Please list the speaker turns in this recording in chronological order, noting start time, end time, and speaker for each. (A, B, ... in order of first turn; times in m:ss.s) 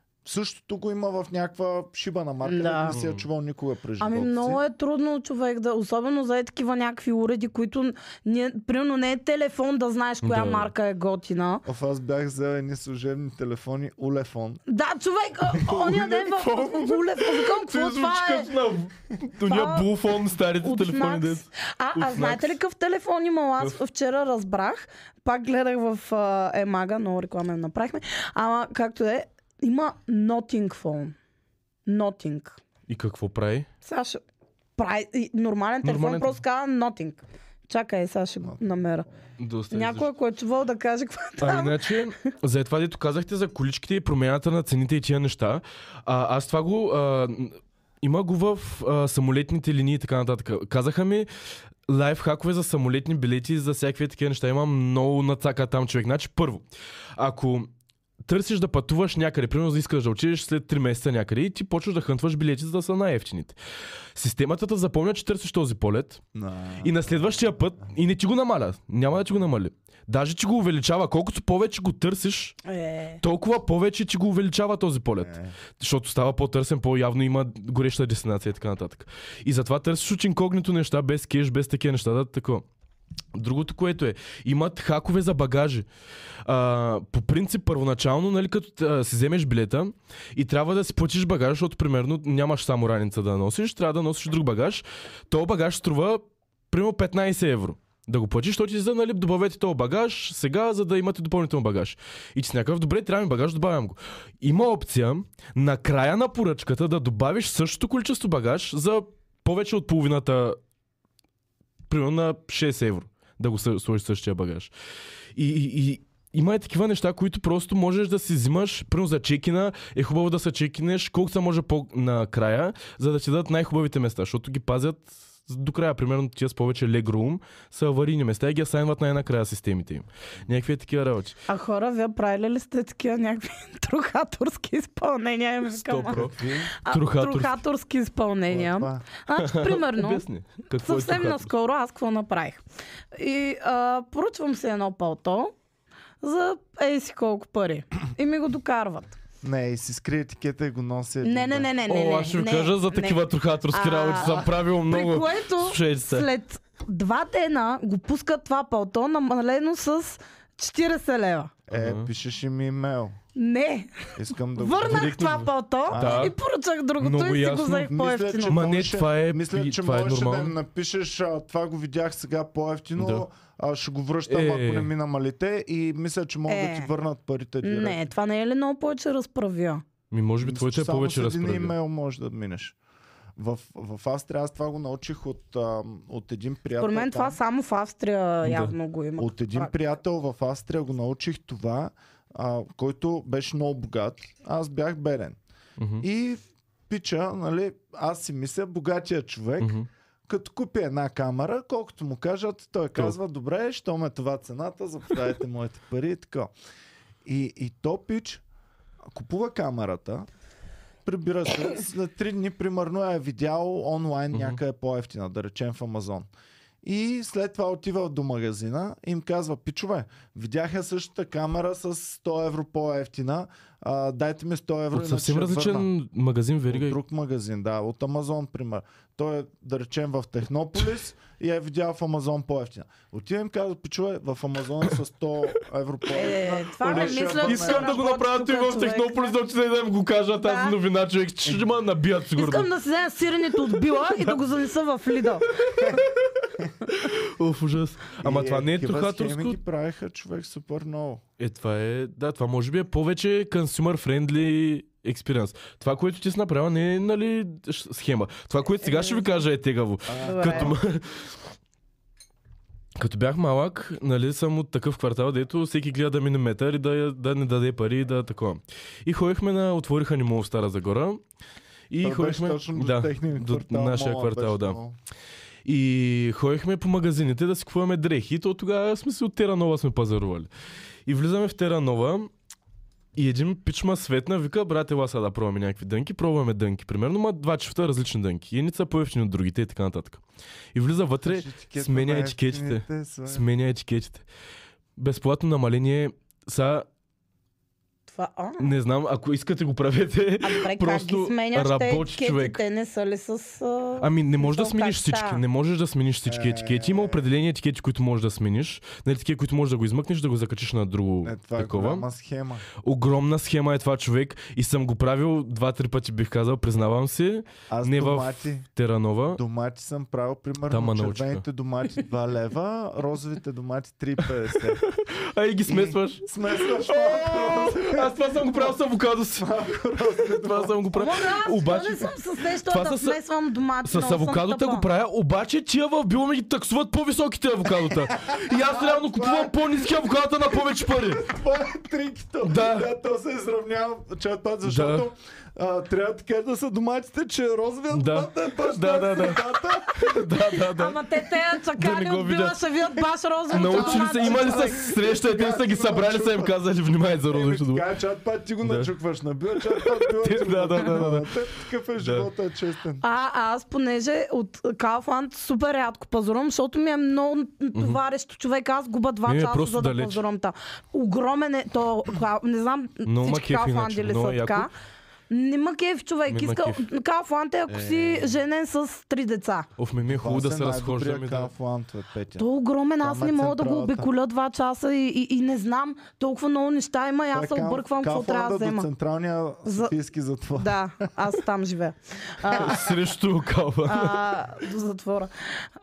0:00.2-0:04.6 A
0:02.4-0:02.9 B
0:02.9-0:03.2 C
0:04.0-0:11.6 B
0:10.2-0:10.7 C
0:11.6-0:14.6 A
0:14.7-0:18.5 B
0:15.6-0:22.6 C
0:19.4-0:19.9 B
0:20.6-0:31.1 B
0:31.8-0:32.6 B
0:32.9-0:33.7 C
0:33.8-0:34.2 B
0:34.8-0:39.1 B
0:35.8-0:36.4 C
0:39.4-0:40.1 C
0:39.7-0:41.8 B
0:41.4-0:51.3 C
0:51.9-0:57.7 C
0:58.2-1:03.6 C
1:04.1-1:06.2 C
1:06.3-1:07.3 A
1:06.8-1:12.6 C
1:12.6-1:13.2 B
1:13.2-1:22.6 C
1:15.2-1:15.6 A
1:23.3-1:25.9 C
1:26.4-1:50.6 C
1:51.9-1:54.7 C
1:55.3-2:11.4 C
2:11.5-2:20.2 B
2:15.7-2:17.6 C
2:16.1-2:16.7 A
2:18.5-2:19.0 A
2:19.4-2:21.5 C
2:20.8-2:22.6 B
2:23.1-2:25.5 B
2:26.2-2:29.2 B
2:29.4-2:31.7 A
2:31.2-2:41.5 B
2:31.9-2:36.3 C
2:41.7-2:43.2 A
2:41.7-2:42.1 C
2:43.4-2:48.6 B
2:44.1-2:45.1 A
2:44.8-2:46.4 C
2:45.9-2:46.3 A
2:47.0-2:47.9 C
2:47.9-2:58.0 A
2:48.5-2:50.6 C
2:53.0-2:53.2 C
2:54.3-2:54.9 C
2:56.5-2:56.9 B
2:57.6-2:59.8 B
3:00.1-3:01.7 C
3:00.4-3:02.8 A
3:03.4-3:07.4 A
3:06.8-3:09.7 B
3:08.4-3:08.7 C
3:09.2-3:15.4 A
3:15.8-3:16.0 C
3:16.0-3:26.5 A
3:19.6-3:19.9 C
3:27.2-3:28.4 A
3:29.1-3:30.3 A
3:31.0-3:36.3 A
3:34.3-3:34.6 C
3:36.8-3:45.9 A
3:44.9-3:47.0 C
3:46.7-3:57.9 A
3:56.1-3:59.4 B
3:56.8-4:02.7 C
4:00.4-4:00.8 B
4:02.4-4:05.5 B
4:03.6-4:04.4 C
4:05.6-4:06.3 C
4:06.9-4:09.6 C
4:08.2-4:11.2 A
4:11.4-4:21.4 C
4:18.8-4:19.4 B
4:20.1-4:20.8 A
4:20.2-4:20.8 B
4:23.0-4:31.2 C
4:31.9-4:34.8 C
4:32.0-4:35.0 A
4:35.6-4:40.5 C
4:41.0-4:42.3 C
4:43.1-4:50.2 C
4:50.7-4:54.2 C
4:51.2-4:53.4 A
4:55.0-4:56.9 C
4:58.1-4:58.7 B
4:58.6-5:02.6 C
5:00.4-5:05.4 B
5:04.0-5:12.0 C
5:06.2-5:07.2 A
5:11.2-5:12.6 A
5:12.8-5:19.4 C
5:17.7-5:18.7 A
5:19.3-5:24.8 A
5:20.7-5:21.4 C
5:24.8-5:29.5 C
5:25.7-5:28.8 A
5:29.4-5:30.8 A
5:30.2-5:32.1 C
5:30.9-5:34.8 B
5:32.6-5:33.2 C
5:33.8-5:41.2 C
5:38.1-5:39.9 A
5:40.6-5:50.3 A
5:42.4-5:42.9 C
5:44.6-5:45.1 C
5:47.9-5:51.0 C
5:50.6-5:54.9 B
5:51.7-5:52.6 C
5:53.5-5:57.8 C
5:53.5-5:56.6 A
5:57.3-6:03.0 A
5:58.6-5:58.9 C
5:59.6-6:01.3 C
6:02.0-6:02.3 C
6:03.0-6:14.7 B
6:07.7-6:08.0 C
6:09.2-6:10.2 C
6:13.0-6:14.7 C
6:15.3-6:19.7 B
6:16.3-6:16.8 C
6:17.7-6:18.3 A
6:19.8-6:21.5 C
6:20.1-6:22.4 A
6:22.4-6:28.9 B
6:23.0-6:24.1 A
6:27.3-6:31.1 A
6:29.6-6:29.9 B
6:30.6-6:33.0 B
6:32.5-6:34.3 C
6:33.8-6:35.3 B